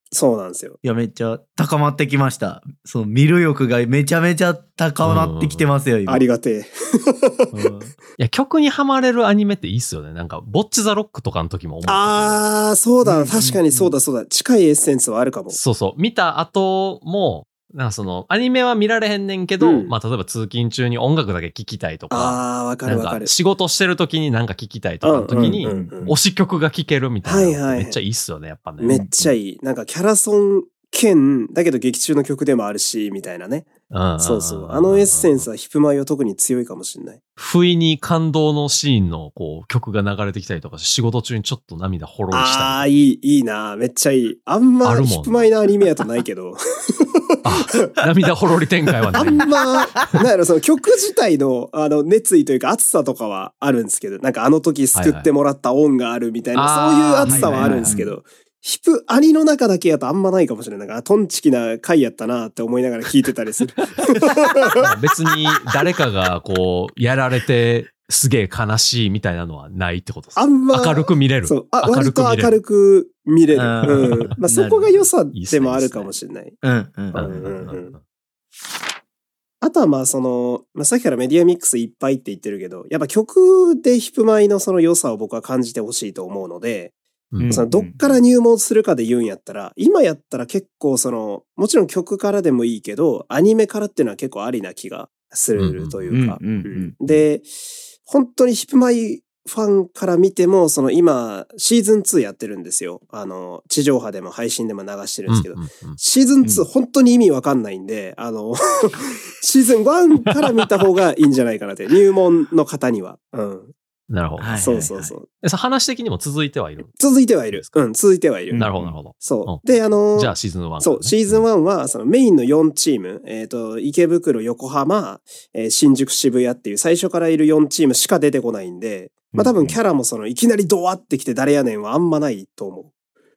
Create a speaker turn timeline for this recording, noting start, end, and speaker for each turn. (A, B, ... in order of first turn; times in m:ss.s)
0:00.1-0:00.8 A
0:00.8-0:06.3 B
0:05.0-0:05.7 C
0:06.1-0:07.5 A
0:07.5-0:08.0 B
0:08.2-0:12.4 C
0:11.9-0:15.6 A
0:13.0-0:13.9 B
0:15.5-0:29.0 C
0:19.6-0:19.9 A
0:22.1-0:23.3 A
0:25.0-0:26.1 A
0:25.3-0:26.2 B
0:27.2-0:28.0 A
0:28.8-0:37.2 A
0:28.9-0:29.3 B
0:33.9-0:35.5 C
0:37.4-0:42.9 C
0:42.3-0:48.0 A
0:44.8-0:45.5 C
0:47.4-0:49.5 C
0:49.1-0:49.4 B
0:49.1-1:04.8 A
0:55.0-0:55.3 C
0:56.6-0:58.0 C
0:57.3-0:58.1 B
1:04.8-1:12.6 C
1:10.4-1:16.6 A
1:13.5-1:14.9 B
1:13.8-1:14.2 C
1:15.3-1:16.1 C
1:16.6-1:17.3 B
1:17.1-1:18.0 A
1:17.1-1:18.0 C
1:19.6-1:26.9 A
1:27.3-1:27.6 C
1:27.4-1:28.2 B
1:27.5-1:37.5 A
1:35.6-1:36.2 C
1:36.1-1:37.0 B
1:38.0-1:53.7 A
1:45.3-1:46.0 C
1:54.1-1:54.9 C
1:54.4-1:55.1 B
1:54.6-1:55.3 A
1:55.4-1:57.0 C
1:57.0-1:58.6 A
1:57.5-1:57.8 C
1:58.5-1:59.0 B
1:58.6-2:01.4 C
1:59.2-2:12.9 A
2:09.4-2:09.7 C